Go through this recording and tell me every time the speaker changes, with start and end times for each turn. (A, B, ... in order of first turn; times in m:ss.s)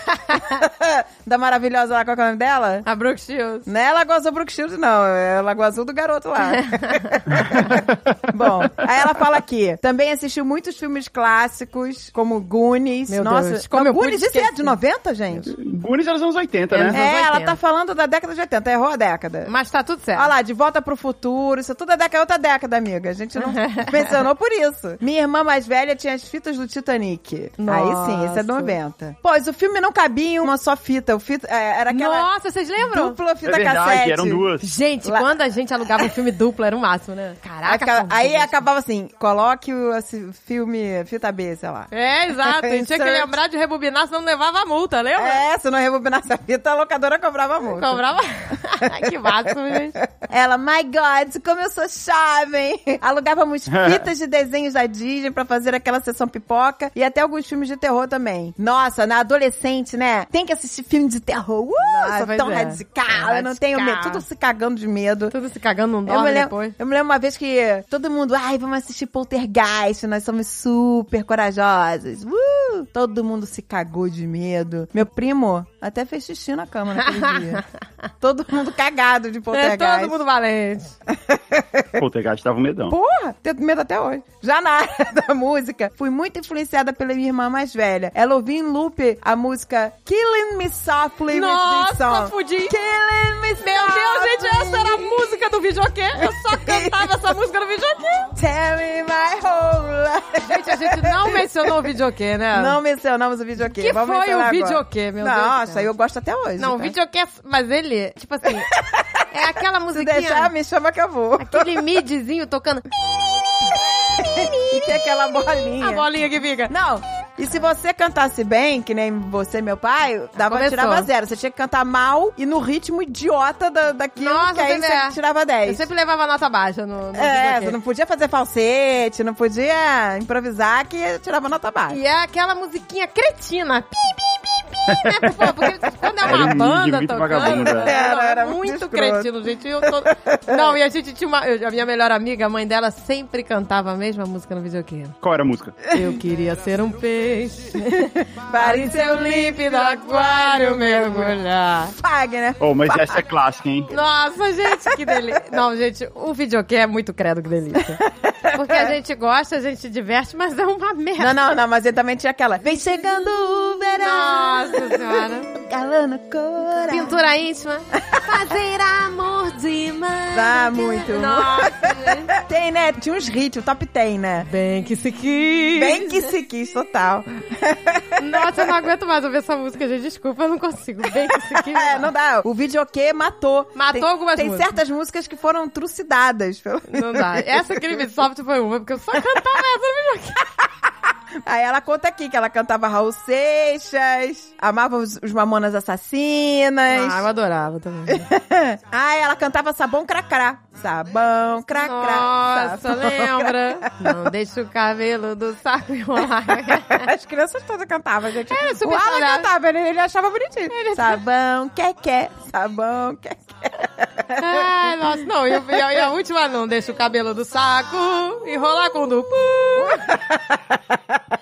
0:00.3-0:02.8 A
0:02.8-0:03.7 B
0:03.6-0:15.6 A
0:06.4-0:07.7 B
0:13.1-0:14.7 B
0:15.6-0:17.0 C
0:16.7-0:17.6 B
0:16.9-0:19.5 A
0:19.4-0:20.3 B
0:20.1-0:32.3 A
0:23.4-0:24.1 B
0:27.6-0:28.7 B
0:31.9-0:33.2 B
0:32.8-0:34.5 A
0:33.4-0:34.7 C
0:34.6-0:38.6 B
0:35.0-0:35.3 A
0:37.6-0:43.3 A
0:41.9-0:45.4 B
0:45.2-0:48.0 A
0:47.7-0:50.0 B
0:50.1-1:05.3 A
0:53.7-0:54.0 C
1:01.8-1:04.2 B
1:05.3-1:06.8 B
1:06.0-1:17.6 A
1:17.0-1:17.6 B
1:18.2-1:20.2 A
1:19.5-1:20.9 B
1:21.1-1:22.0 A
1:22.0-1:23.0 C
1:22.9-1:35.3 A
1:31.3-1:32.8 B
1:33.6-1:38.3 B
1:36.3-1:37.1 A
1:38.3-1:41.7 A
1:40.4-1:42.8 B
1:42.5-1:46.9 A
1:43.7-1:45.9 B
1:46.6-1:48.7 B
1:48.5-1:49.2 A
1:49.3-1:50.5 B
1:49.9-1:51.8 A
1:51.4-1:52.8 B
1:53.0-1:56.0 A
1:54.1-1:56.7 B
1:56.7-2:05.8 A
2:00.4-2:01.1 B
2:04.2-2:07.8 B
2:07.1-2:12.0 A
2:11.9-2:25.1 B
2:14.9-2:15.4 C
2:16.2-2:17.9 C
2:17.3-2:20.8 A
2:25.2-2:25.8 C
2:25.9-2:31.9 B
2:27.8-2:31.4 A
2:31.9-2:33.2 A
2:32.6-2:33.9 C
2:33.9-2:41.4 B
2:34.8-2:35.4 A
2:38.0-2:38.9 A
2:41.2-2:47.2 A
2:44.0-2:45.5 B
2:46.9-2:52.3 B
2:50.3-2:54.5 A
2:54.4-2:56.3 B
2:55.7-2:58.6 A
2:58.2-3:02.1 B
3:01.1-3:08.0 A
3:03.7-3:04.7 B
3:06.9-3:10.4 B
3:11.4-3:17.2 A
3:16.9-3:18.3 B
3:18.1-3:24.2 A
3:21.7-3:27.1 B
3:26.7-3:34.9 A
3:28.5-3:29.5 B
3:30.7-3:31.2 B
3:34.4-3:40.0 B
3:39.8-3:41.2 A